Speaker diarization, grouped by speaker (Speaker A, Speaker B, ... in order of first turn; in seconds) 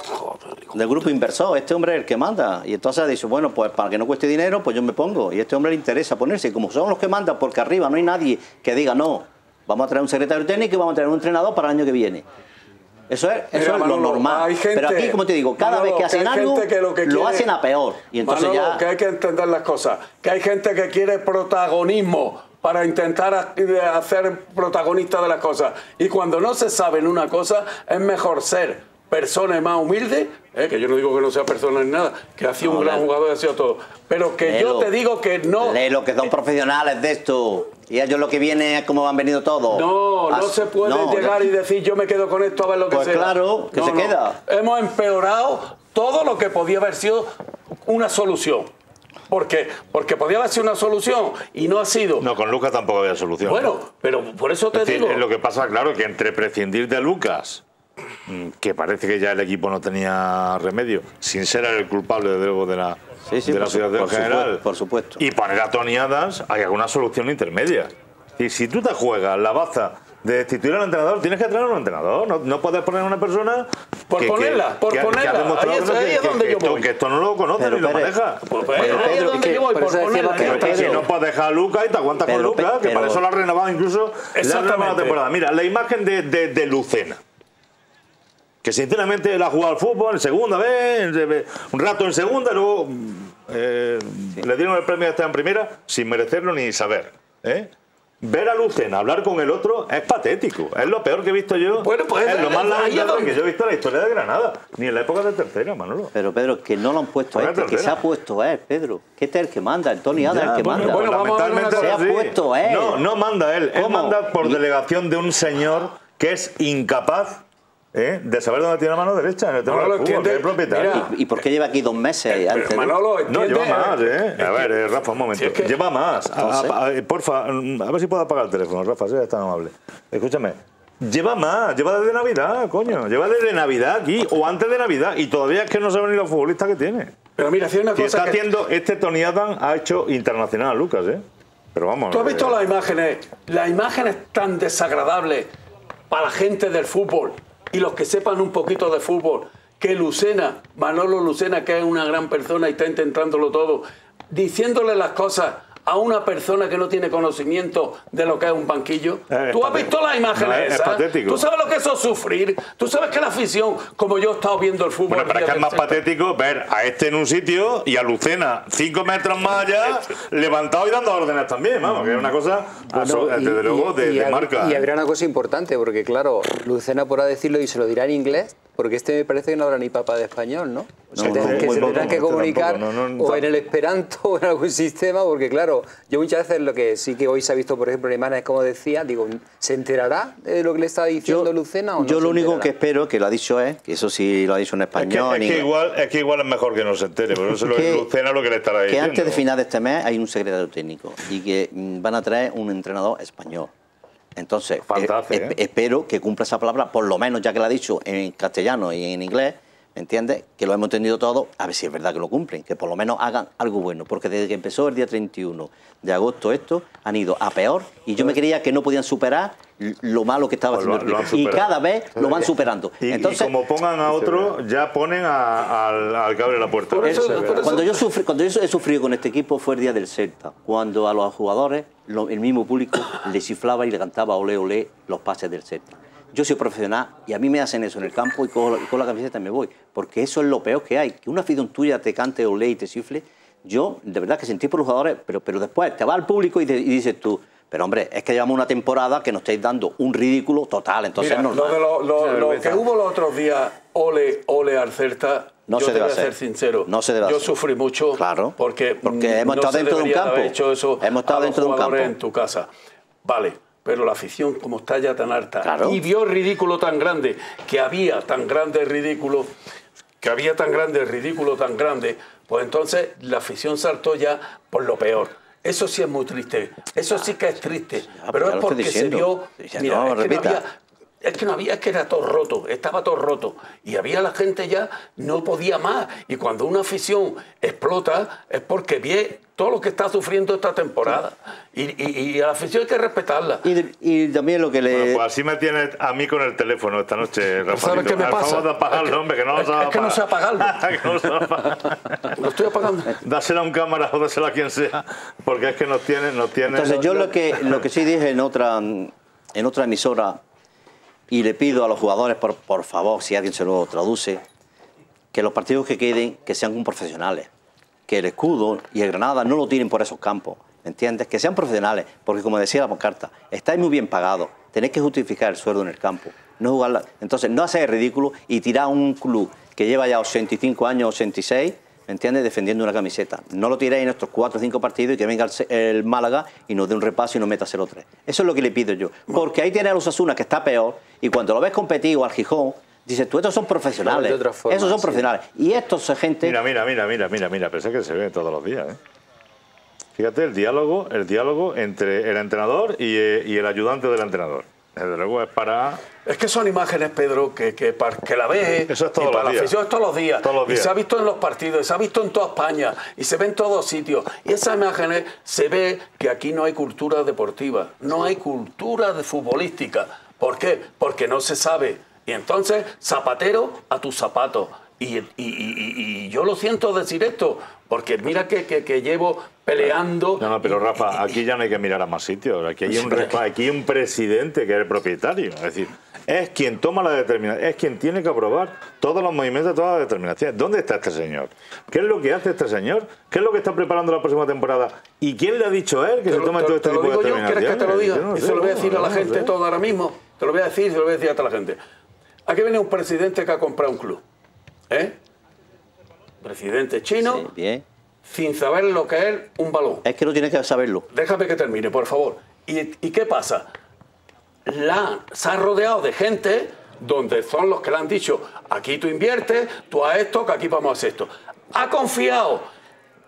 Speaker A: 0.7-12.2, 13.1-18.8, 32.6-33.1, 34.4-34.9, 35.6-41.5, 42.9-44.4, 63.3-65.2, 77.6-78.1, 78.8-79.6, 80.4-81.0, 82.2-83.2, 106.1-111.0, 111.7-113.0, 113.7-114.6, 120.9-123.0, 126.4-126.7, 181.2-182.1, 191.2-195.7, 197.6-198.1, 198.9-203.7, 204.3-223.5, 227.0-251.8, 255.7-256.3, 256.9-257.5, 258.1-262.1, 265.6-266.0, 278.1-280.6, 293.6-295.2, 306.6-310.4, 311.3-314.4, 315.3-317.5, 318.1-346.6, 407.2-407.8, 410.0-411.1
Speaker B: 13.5-17.5, 18.2-35.8, 39.7-47.3, 47.8-48.7, 49.3-52.3, 53.4-55.2, 74.1-76.9, 78.5-81.0, 84.3-85.2, 101.8-103.4, 110.8-112.0, 119.7-121.1, 122.3-124.8, 125.3-125.7, 137.4-138.4, 142.1-145.5, 146.1-166.0, 226.9-228.1, 251.2-262.7, 263.2-269.5, 270.2-293.7, 297.7-300.8, 302.3-303.2, 356.2-380.8, 396.3-401.8, 402.4-404.2, 404.9-405.2, 406.4-407.5, 408.2-410.0, 411.1-413.7, 414.6-422.6
Speaker C: 52.2-53.7, 54.7-57.6, 58.2-64.6, 65.2-79.2, 80.4-87.2, 88.6-97.7, 98.2-106.1, 107.3-108.0, 110.2-121.0, 123.3-137.1, 137.9-141.2, 141.7-142.6, 159.3-161.4, 165.1-174.8, 181.2-183.5, 194.9-199.4, 204.8-205.6, 220.7-222.5, 223.0-227.8, 294.9-302.4, 303.1-307.4, 346.4-349.0, 350.1-356.0, 358.9-359.8, 360.4-360.9, 380.4-399.5
Speaker D: 78.8-81.0, 172.9-192.7, 344.0-345.3